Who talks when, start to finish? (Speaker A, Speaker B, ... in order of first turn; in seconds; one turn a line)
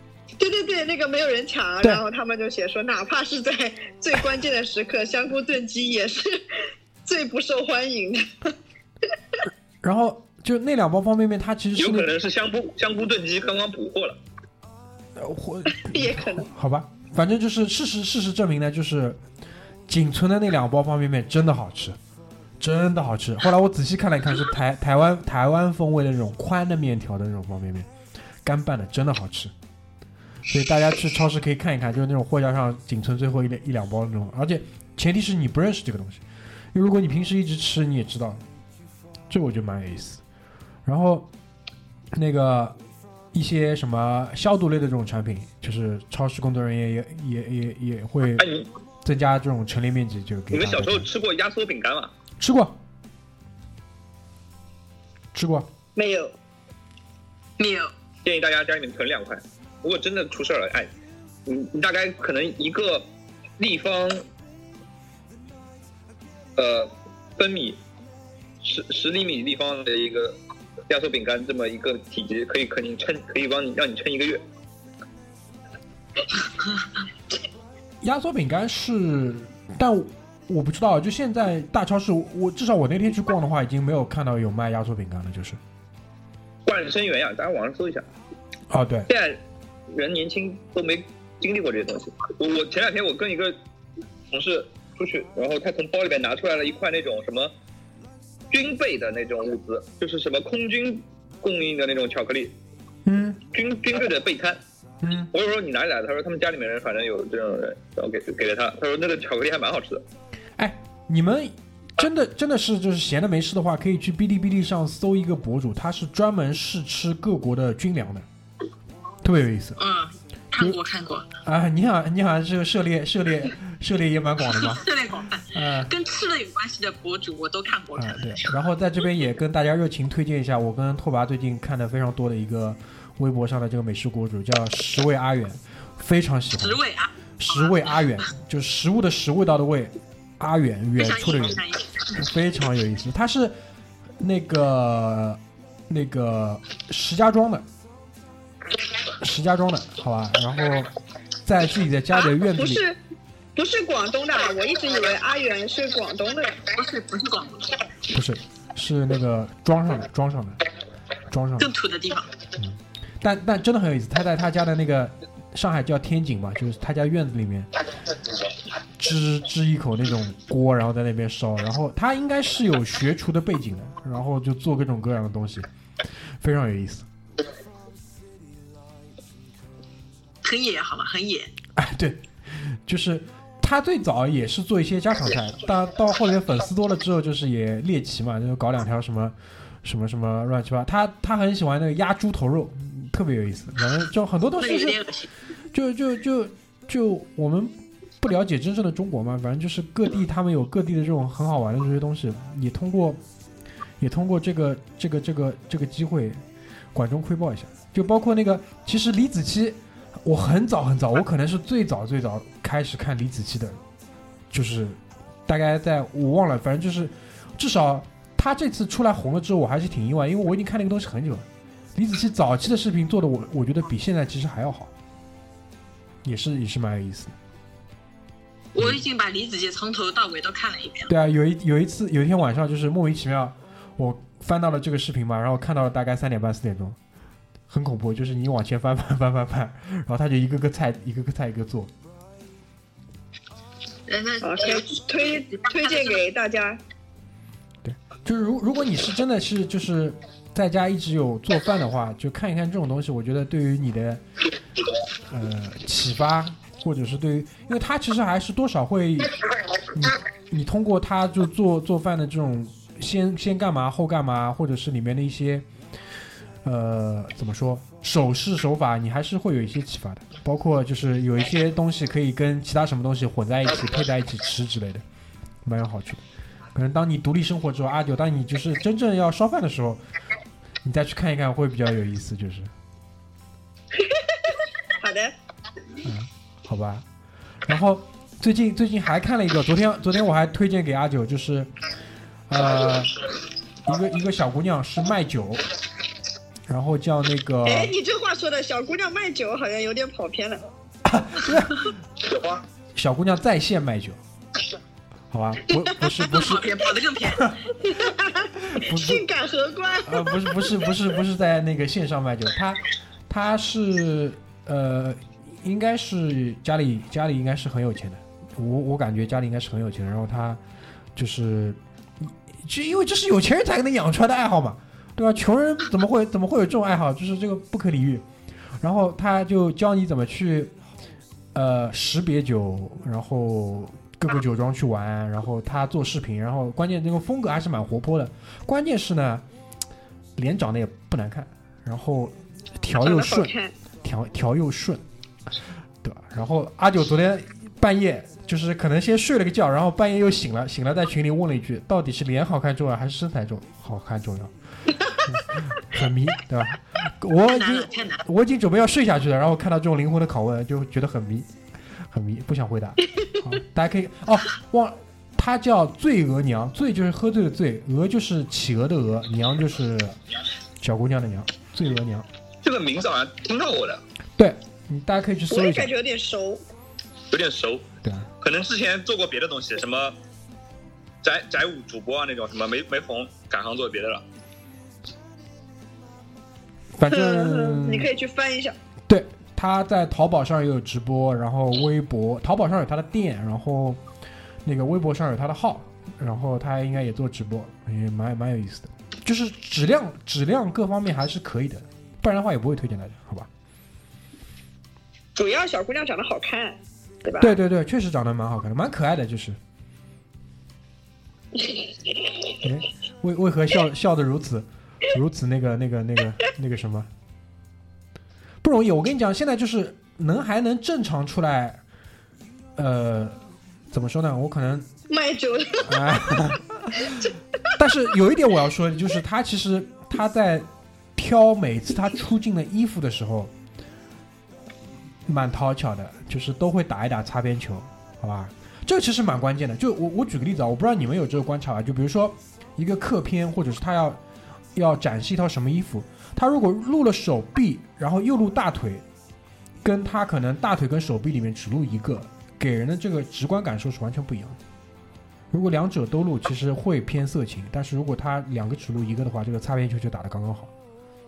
Speaker A: 0.4-6.4
Speaker A: 7.0-8.5
Speaker B: 9.8-12.1
Speaker C: 11.8-14.2
Speaker B: 15.2-19.2
Speaker A: 15.7-16.5
Speaker B: 19.9-22.0
Speaker B: 22.6-27.9
Speaker B: 28.4-29.5
Speaker B: 30.5-38.4
Speaker B: 39.3-40.2
Speaker B: 40.8-41.3
Speaker B: 42.1-42.8
Speaker B: 43.3-48.5
Speaker C: 48.4-48.7
Speaker B: 49.0-51.1
Speaker C: 50.5-52.1
Speaker B: 52.4-52.8
Speaker B: 55.3-55.7
Speaker A: 56.0-56.3
Speaker D: 57.6-57.9
Speaker C: 58.2-60.9
Speaker C: 61.5-63.1
Speaker C: 63.6-64.2
Speaker C: 66.6-67.8
Speaker C: 68.6-74.4
Speaker B: 78.0-85.6
Speaker C: 86.7-88.0
Speaker B: 88.7-89.1
Speaker C: 89.1-89.4
Speaker C: 89.9-93.5
Speaker C: 94.3-97.5
Speaker C: 98.5-102.5
Speaker B: 103.0-103.4
Speaker C: 103.5-104.6
Speaker B: 105.0-105.3
Speaker C: 105.3-110.0
Speaker B: 110.6-118.2
Speaker B: 119.2-119.8
Speaker D: 119.8-121.3
Speaker B: 121.4-124.8
Speaker D: 124.6-128.4
Speaker B: 125.5-125.9
Speaker B: 128.0-136.8
Speaker D: 136.6-137.9
Speaker B: 137.4-143.5
Speaker D: 140.9-142.2
Speaker B: 144.2-147.7
Speaker B: 149.2-150.9
Speaker B: 151.4-152.8
Speaker A: 152.1-153.0
Speaker A: 153.6-156.6
Speaker D: 156.7-157.7
Speaker B: 158.1-160.6
Speaker B: 161.3-161.7
Speaker D: 161.6-162.3
Speaker B: 162.6-167.7
Speaker B: 169.0-175.7
Speaker B: 176.4-177.1
Speaker D: 180.4-181.5
Speaker B: 181.8-195.0
Speaker D: 194.6-195.3
Speaker B: 195.7-203.2
Speaker B: 204.0-206.4
Speaker B: 206.9-213.8
Speaker B: 214.5-224.9
Speaker B: 226.2-227.3
Speaker D: 228.7-231.1
Speaker B: 231.1-237.0
Speaker B: 237.7-241.9
Speaker D: 244.1-246.2
Speaker A: 244.4-246.8
Speaker B: 247.8-254.2
Speaker B: 255.3-259.4
Speaker B: 259.9-265.7
Speaker B: 266.6-275.0
Speaker B: 275.6-276.2
Speaker B: 276.7-280.0
Speaker B: 280.8-282.7
Speaker A: 284.0-284.4
Speaker A: 285.0-285.3
Speaker B: 286.0-287.0
Speaker B: 287.6-291.7
Speaker B: 292.5-293.2
Speaker B: 293.8-295.7
Speaker B: 296.7-297.9
Speaker A: 297.6-300.6
Speaker B: 301.0-301.9
Speaker B: 302.9-304.2
Speaker B: 305.3-306.7
Speaker D: 306.2-307.6
Speaker B: 307.2-307.6
Speaker A: 307.8-310.8
Speaker B: 308.6-309.2
Speaker B: 310.1-320.6
Speaker B: 321.1-328.2
Speaker B: 328.8-330.7
Speaker B: 331.5-339.4
Speaker B: 340.4-345.0
Speaker A: 343.0-343.7
Speaker B: 346.0-354.5
Speaker B: 355.2-361.5
Speaker D: 357.5-358.2
Speaker B: 362.1-370.2
Speaker B: 370.8-372.3
Speaker C: 372.6-374.0
Speaker B: 374.4-375.9
Speaker A: 375.5-376.6
Speaker C: 377.3-377.9
Speaker B: 378.0-378.3
Speaker C: 378.4-380.1
Speaker C: 381.2-384.2
Speaker B: 386.9-388.1
Speaker A: 387.1-388.7
Speaker B: 389.1-394.0
Speaker B: 394.6-403.5
Speaker A: 405.4-407.6
Speaker B: 407.4-409.6
Speaker B: 412.6-417.1
Speaker B: 418.6-421.8
Speaker B: 422.8-423.4
Speaker B: 423.9-424.9
Speaker A: 425.1-426.5
Speaker B: 425.8-433.5
Speaker A: 427.0-427.3
Speaker B: 435.3-444.2
Speaker B: 444.7-449.0
Speaker B: 449.8-454.6
Speaker B: 455.5-460.7